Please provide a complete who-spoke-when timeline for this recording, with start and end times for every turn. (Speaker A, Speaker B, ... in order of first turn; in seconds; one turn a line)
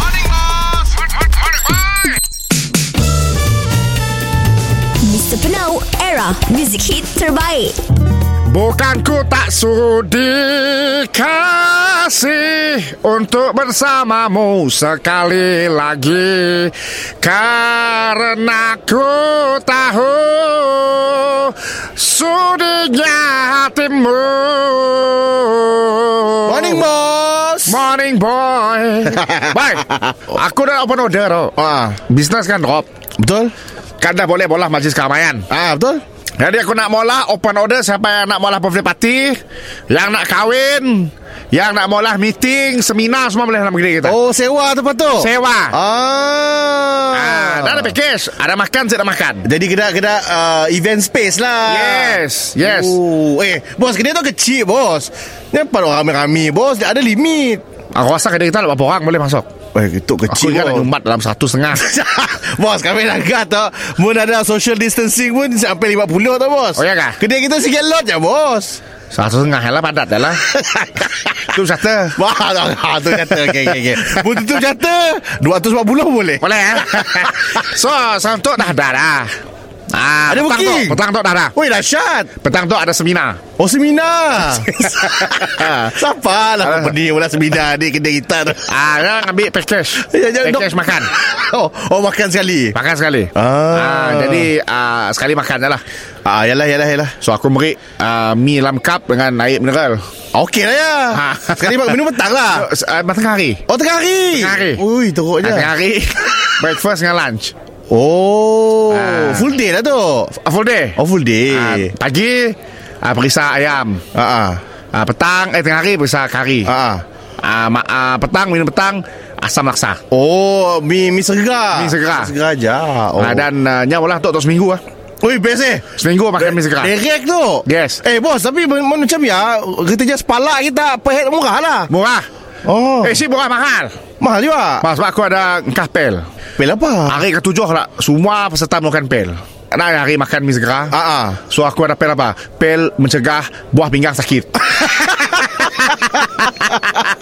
Speaker A: 0.1-0.7
Speaker B: 5.0-7.8
Speaker C: 8.5-26.8
Speaker A: 26.4-27.8
Speaker C: 27.7-32.9
Speaker A: 29.2-30.0
Speaker A: 31.6-32.0
Speaker A: 33.2-33.5
Speaker C: 34.0-35.5
Speaker A: 35.5-36.0
Speaker C: 36.4-44.2
Speaker A: 44.0-47.9
Speaker C: 45.2-45.8
Speaker C: 47.1-49.5
Speaker A: 49.4-57.6
Speaker C: 51.6-53.0
Speaker C: 57.9-59.5
Speaker A: 59.7-60.9
Speaker C: 60.3-61.9
Speaker A: 61.7-68.8
Speaker C: 66.8-67.2
Speaker C: 69.1-70.5
Speaker A: 70.5-71.1
Speaker C: 71.5-72.2
Speaker A: 72.2-77.5
Speaker C: 76.4-79.3
Speaker C: 79.9-81.5
Speaker A: 80.3-81.0
Speaker A: 81.5-82.3
Speaker C: 82.4-83.4
Speaker A: 83.6-88.7
Speaker C: 84.8-85.7
Speaker C: 86.6-86.9
Speaker C: 88.7-91.1
Speaker A: 90.0-92.8
Speaker C: 92.7-95.8
Speaker A: 93.3-94.5
Speaker A: 96.2-97.2
Speaker C: 97.2-100.0
Speaker A: 100.3-102.7
Speaker C: 101.1-102.0
Speaker C: 102.5-103.6
Speaker A: 103.7-105.7
Speaker C: 104.3-104.8
Speaker C: 105.4-107.5
Speaker A: 107.9-110.3
Speaker C: 108.9-109.5
Speaker C: 110.4-114.0
Speaker A: 111.0-111.9
Speaker A: 114.1-114.6
Speaker C: 114.9-116.7
Speaker A: 116.7-117.0
Speaker C: 117.4-120.0
Speaker A: 120.1-123.5
Speaker C: 121.7-122.3
Speaker C: 123.2-124.8
Speaker A: 125.2-131.9
Speaker C: 125.9-126.9
Speaker C: 127.6-128.0
Speaker C: 131.9-132.3
Speaker A: 132.6-133.2
Speaker C: 133.0-134.0
Speaker A: 134.2-134.8
Speaker C: 134.8-136.2
Speaker A: 136.6-137.2
Speaker C: 137.1-146.7
Speaker A: 140.9-141.4